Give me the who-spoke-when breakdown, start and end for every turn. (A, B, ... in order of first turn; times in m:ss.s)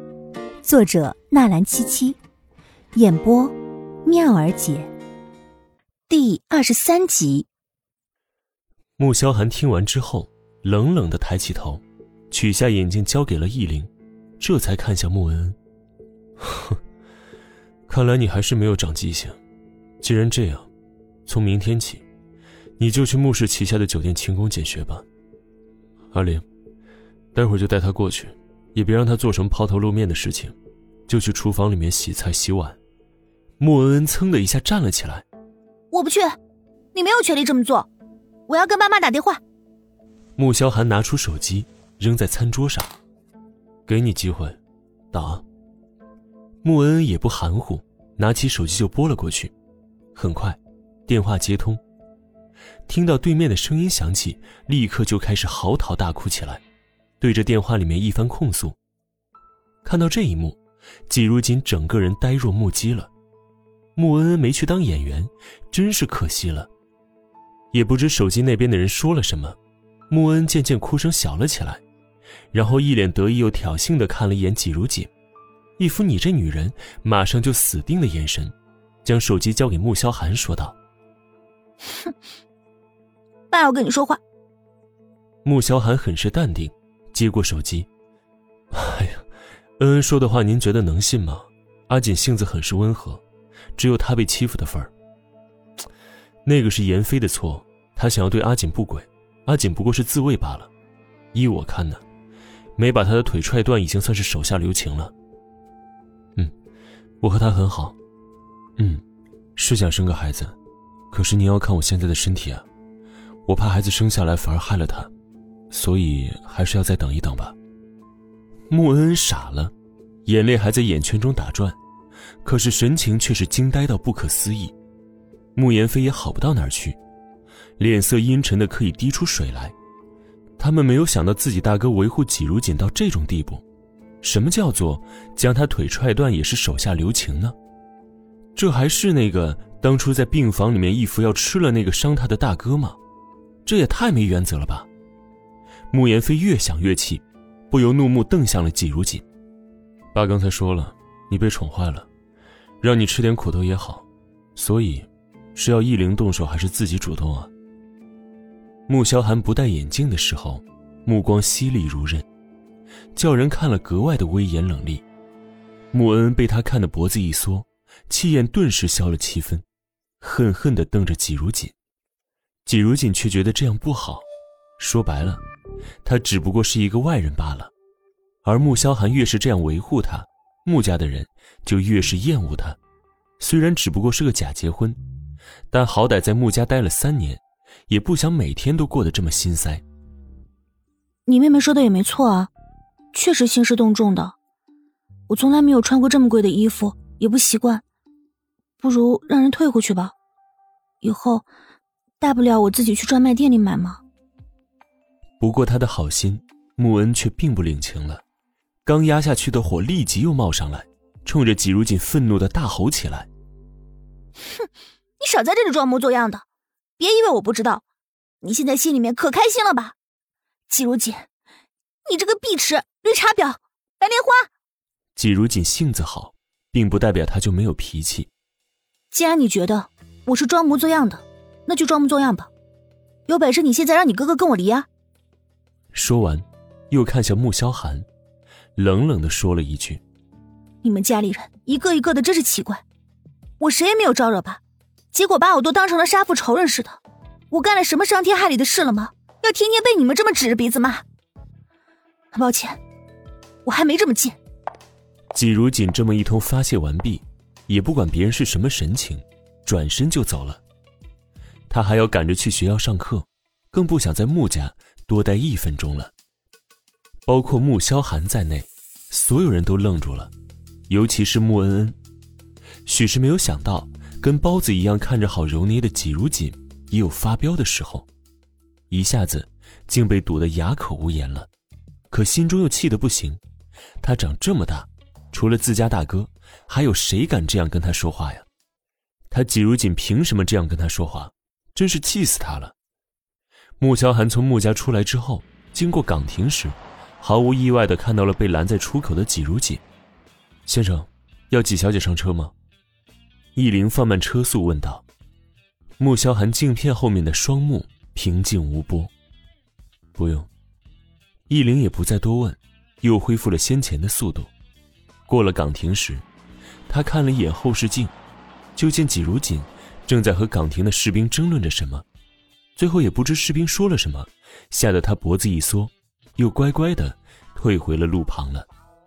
0:00.6-0:02.2 A
0:02.9-0:04.9 A
0:06.1-0:07.5 A
0:09.0-0:15.6 B
0:16.4-0:16.8 B
0:17.9-0:19.4 B
0:20.0-0:20.7 B
0:21.2-0:22.0 B
0:22.8-0:25.0 B
0:26.1-0:26.4 B
0:27.3-0:30.5 B
0:31.1-0:32.8 B
0:33.6-0:35.2 B
0:35.9-0:36.3 C
0:36.9-0:37.8 C
0:38.5-0:39.4 C
0:40.4-0:42.9 B
0:43.9-0:44.6 B
0:45.1-0:45.4 B
0:46.6-0:49.5 B
0:50.1-0:51.8 B
0:52.9-0:56.6 B
0:57.2-0:58.8 B
0:59.8-1:03.1 B
1:04.0-1:06.7 B
1:07.7-1:09.6 B
1:10.1-1:11.8 B
1:12.5-1:15.1 B
1:15.8-1:18.5 B
1:19.0-1:20.8 B
1:23.5-1:24.2 C
1:25.4-1:27.9 B
1:28.7-1:29.2 B
1:29.8-1:33.2 B
1:33.8-1:34.9 B
1:36.4-1:40.7 B
1:41.3-1:42.0 B
1:42.8-1:45.1 B
1:47.2-1:48.0 B
1:48.8-1:49.0 B
1:49.6-1:50.6 B
1:51.1-1:52.6 B
1:53.4-1:55.1 B
1:55.7-1:57.6 B
1:58.7-1:59.7 B
2:00.2-2:01.8 B
2:02.4-2:04.7 B
2:05.5-2:07.0 B
2:07.8-2:09.7 B
2:10.6-2:13.6 B
2:14.2-2:17.5 B
2:18.5-2:23.0 B
2:23.6-2:24.9 B
2:25.9-2:29.2 B
2:30.1-2:32.1 B
2:32.8-2:37.5 B
2:38.9-2:42.2 B
2:43.1-2:45.0 B
2:45.9-2:49.6 B
2:50.2-2:51.7 B
2:52.6-2:54.2 B
2:54.8-2:55.4 B
2:56.0-2:57.7 B
2:58.4-3:02.8 B
3:03.4-3:05.0 B
3:05.7-3:09.8 B
3:11.3-3:12.5 C
3:11.6-3:12.2 A
3:13.1-3:14.3 C
3:13.3-3:14.1 A
3:15.3-3:17.8 C
3:16.1-3:17.8 A
3:18.8-3:20.0 C
3:19.7-3:20.1 A
3:21.0-3:21.4 C
3:22.2-3:24.0 C
3:22.5-3:23.8 A
3:25.4-3:28.2 B
3:28.8-3:33.3 B
3:35.2-3:36.4 C
3:37.0-3:37.8 C
3:38.4-3:39.9 C
3:40.7-3:41.2 C
3:42.0-3:44.5 C
3:45.2-3:48.3 B
3:49.1-3:52.5 C
3:53.3-3:54.8 C
3:55.9-3:58.1 B
3:58.8-4:00.0 B
4:00.8-4:02.8 C
4:03.6-4:04.6 C
4:05.1-4:07.0 C
4:07.5-4:11.0 C
4:12.3-4:12.8 C
4:13.6-4:14.3 C
4:13.8-4:14.2 A
4:15.3-4:20.6 B
4:21.7-4:26.1 B
4:27.3-4:30.3 B
4:30.9-4:32.0 B
4:32.8-4:38.1 B
4:38.9-4:41.5 B
4:42.1-4:43.4 B
4:44.0-4:48.4 B
4:49.3-4:52.7 B
4:53.8-4:59.8 B
5:00.6-5:02.5 B
5:03.5-5:05.0 B
5:06.0-5:09.1 B
5:10.2-5:10.5 B
5:11.5-5:14.5 B
5:15.3-5:16.2 B
5:16.9-5:18.1 B
5:18.8-5:22.0 B
5:22.8-5:28.7 B